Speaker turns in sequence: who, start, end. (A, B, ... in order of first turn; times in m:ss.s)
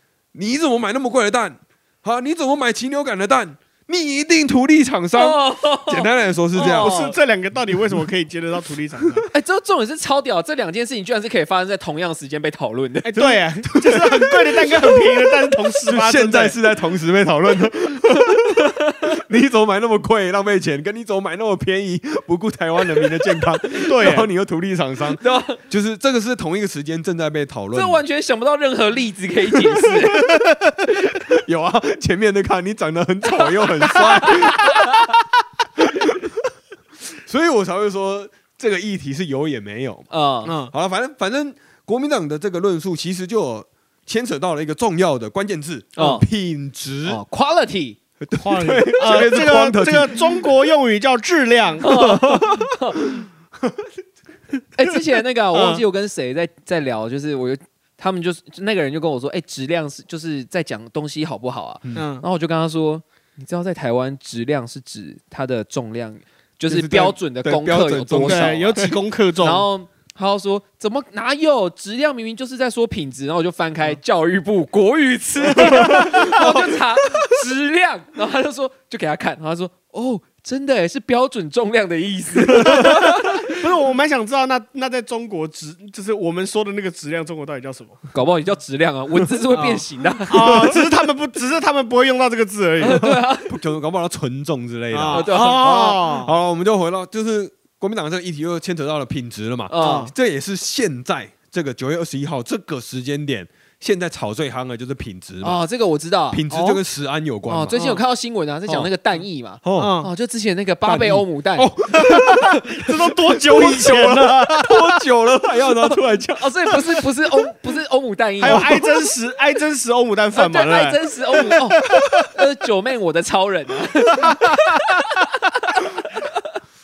0:00.3-0:07.0 A
0:05.2-0:07.2 B
0:06.5-0:09.3 C
0:09.3-0:13.2 B
0:13.0-0:16.6 C
0:13.2-0:15.3 A
0:15.8-0:28.0 A
0:18.6-0:18.9 B
0:23.8-0:24.3 C
0:25.2-0:25.6 B
0:27.7-0:30.3 B
0:30.1-0:30.8 C
0:31.1-0:34.9 A
0:33.9-0:35.1 B
0:35.8-0:36.4 A
0:37.2-0:40.1 A
0:40.1-0:40.5 B
0:40.4-0:40.7 C
0:40.6-0:47.2 A
0:46.0-0:46.2 B
0:47.0-0:48.0 B
0:48.2-0:50.5 A
0:48.4-0:52.4 C
0:51.8-0:53.1 B
0:52.2-0:53.0 A
0:54.8-1:08.8 B
0:55.5-0:55.8 C
1:01.9-1:02.2 C
1:06.7-1:08.9 A
1:08.2-1:09.6 C
1:09.4-1:23.6 B
1:15.5-1:16.5 C
1:15.7-1:16.7 A
1:22.5-1:28.0 C
1:28.1-1:30.7 B
1:29.5-1:33.1 C
1:32.8-1:33.6 B
1:32.9-1:45.6 A
1:34.9-1:36.3 C
1:35.1-1:35.7 B
1:39.7-1:40.1 B
1:39.8-1:40.1 C
1:45.4-1:46.4 B
1:46.3-1:47.8 A
1:46.5-1:46.8 C
1:47.5-1:51.7 B
1:47.7-1:48.0 C
1:49.6-1:50.0 A
1:49.8-1:50.1 C
1:50.8-1:57.0 A
1:51.9-1:55.0 C
1:56.4-1:58.7 B
1:58.4-2:02.3 C
1:58.4-1:58.9 A
2:00.3-2:05.8 B
2:04.2-2:05.0 C